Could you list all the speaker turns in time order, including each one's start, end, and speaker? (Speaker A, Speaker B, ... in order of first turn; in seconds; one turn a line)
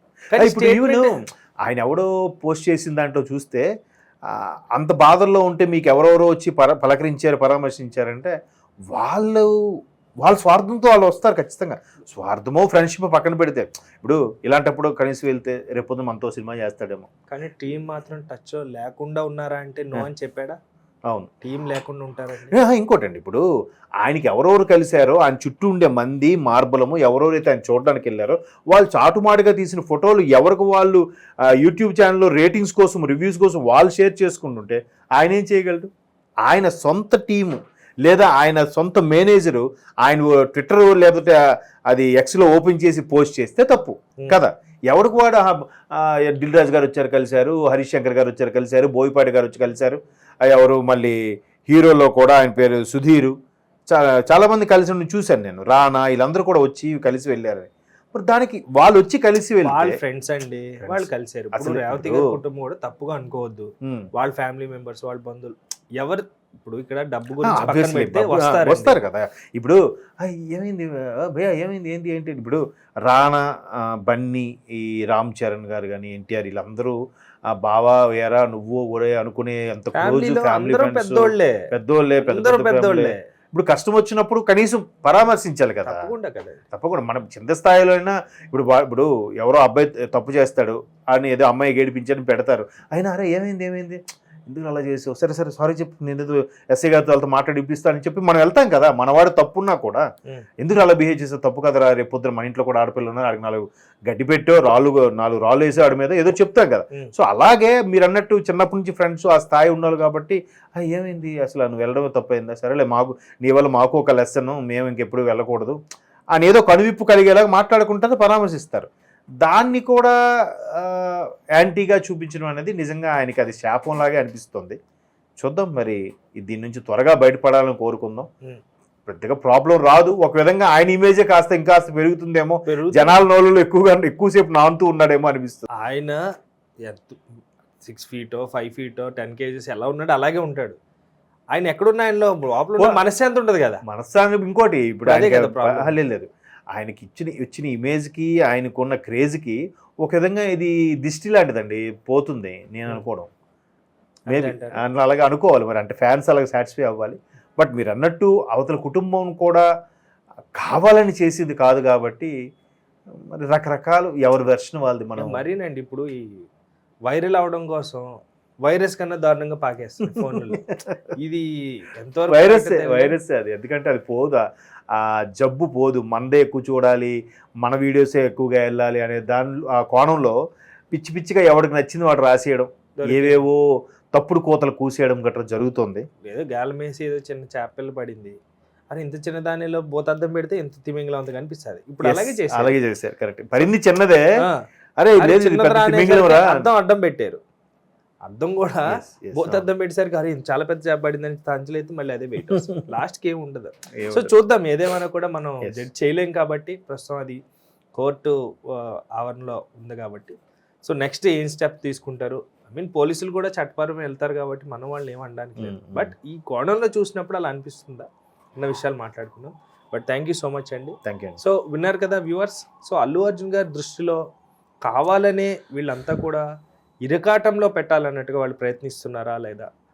Speaker A: 0.3-1.1
Speaker B: 0.3-3.6
Speaker B: 4.3-8.3
Speaker B: 8.9-9.5
Speaker B: 10.2-17.1
Speaker A: 17.3-20.6
Speaker A: 21.4-22.5
Speaker B: 22.5-23.4
Speaker B: 24.0-35.9
Speaker B: 36.4-53.3
Speaker B: 53.9-60.0
Speaker A: 59.6-69.0
Speaker B: 60.8-62.3
Speaker B: 63.8-64.1
Speaker B: 67.4-77.0
Speaker B: 77.5-86.1
Speaker A: 79.9-81.7
Speaker A: 82.2-83.2
Speaker A: 85.8-86.6
Speaker B: 86.7-100.0
Speaker B: 100.6-115.8
Speaker B: 116.3-118.9
Speaker B: 119.4-124.8
Speaker B: 125.4-128.3
Speaker B: 129.1-135.7
Speaker A: 132.7-133.2
Speaker A: 135.8-136.2
Speaker A: 136.8-137.2
Speaker A: 137.8-140.8
Speaker A: 141.5-143.8
Speaker B: 142.8-143.0
Speaker B: 143.9-153.3
Speaker A: 145.1-145.9
Speaker A: 154.3-154.8
Speaker B: 154.3-159.6
Speaker B: 160.6-162.3
Speaker B: 163.3-165.4
Speaker A: 165.2-166.4
Speaker A: 167.1-168.1
Speaker A: 168.6-170.6
Speaker B: 170.1-171.0
Speaker A: 171.2-173.2
Speaker B: 172.3-180.4
Speaker B: 180.9-183.6
Speaker A: 182.9-183.4
Speaker B: 184.1-186.0
Speaker A: 186.2-188.3
Speaker A: 188.9-192.7
Speaker B: 192.0-194.2
Speaker B: 195.0-196.7
Speaker A: 195.2-197.4
Speaker A: 198.2-207.4
Speaker B: 198.9-199.6
Speaker B: 204.0-204.3
Speaker A: 208.0-224.2
Speaker B: 215.6-216.1
Speaker B: 221.0-221.4
Speaker A: 224.8-226.4
Speaker A: 227.0-229.7